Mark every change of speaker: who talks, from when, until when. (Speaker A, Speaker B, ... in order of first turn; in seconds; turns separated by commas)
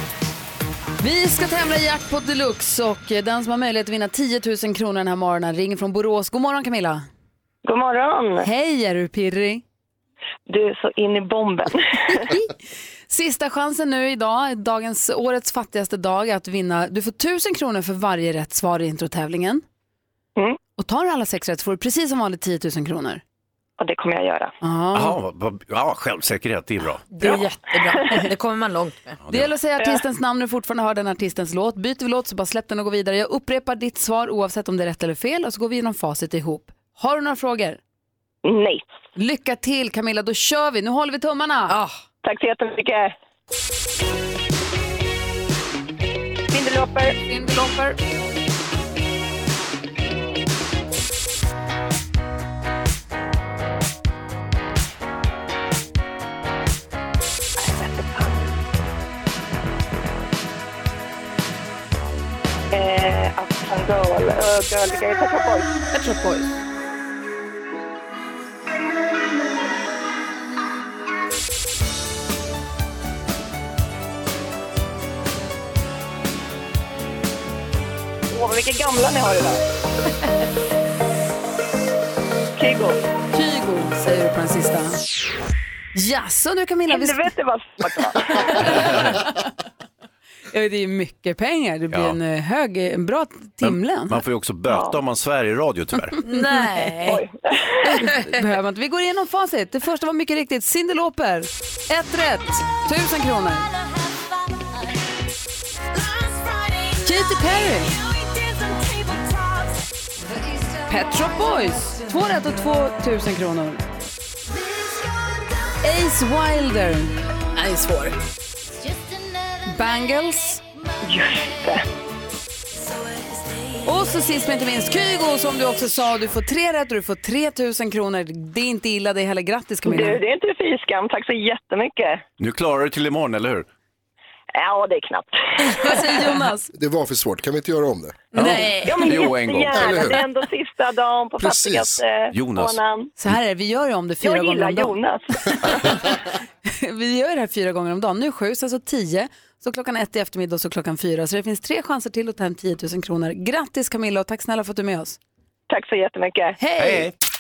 Speaker A: 1.0-7.1, Speaker B: 7.7-8.5, Speaker A: 8.4-9.6, Speaker B: 10.5-12.3, Speaker A: 12.1-12.6, Speaker A: 13.1-19.6, Speaker A: 20.8-23.2, Speaker B: 23.8-24.5, Speaker A: 24.6-25.2, Speaker C: 24.9-27.1, Speaker D: 27.1-29.2, Speaker C: 29.2-29.5, Speaker A: 29.3-37.8, Speaker B: 38.5-38.8, Speaker A: 39.2-41.8, Speaker D: 41.7-42.0, Speaker B: 42.2-43.1, Speaker B: 46.5-47.2, Speaker A: 47.3-48.0, Speaker B: 57.6-58.5, Speaker B: 62.7-65.8, Speaker A: 65.9-66.5, Speaker B: 78.3-79.6, Speaker B: 82.6-83.0, Speaker A: 83.3-85.0, Speaker A: 86.0-87.3, Speaker B: 86.9-88.7, Speaker A: 88.5-89.4, Speaker A: 90.5-94.2, Speaker C: 91.9-92.2, Speaker C: 93.6-96.2, Speaker B: 94.7-95.0, Speaker D: 96.2-97.2, Speaker B: 97.0-98.0, Speaker A: 97.8-103.7, Speaker A: 107.0-108.0, Speaker A: 110.9-113.8, Speaker A: 115.8-117.2, Speaker D: 117.5-118.2, Speaker A: 119.7-120.6, Speaker B: 121.0-121.8, Speaker A: 123.8-130.2, Speaker B: 129.8-132.2, Speaker C: 132.4-133.7, Speaker B: 134.6-136.0, Speaker A: 135.7-136.7, Speaker E: 136.7-138.3, Speaker C: 138.3-140.1, Speaker A: 138.4-138.8, Speaker D: 138.4-138.7, Speaker B: 138.8-143.1, Speaker E: 139.7-140.2, Speaker E: 141.4-142.0, Speaker C: 142.3-142.8, Speaker A: 143.2-144.9, Speaker B: 144.2-145.4, Speaker A: 145.6-145.9, Speaker A: 146.7-155.2, Speaker B: 155.7-156.6, Speaker A: 156.6-157.1, Speaker C: 156.8-157.1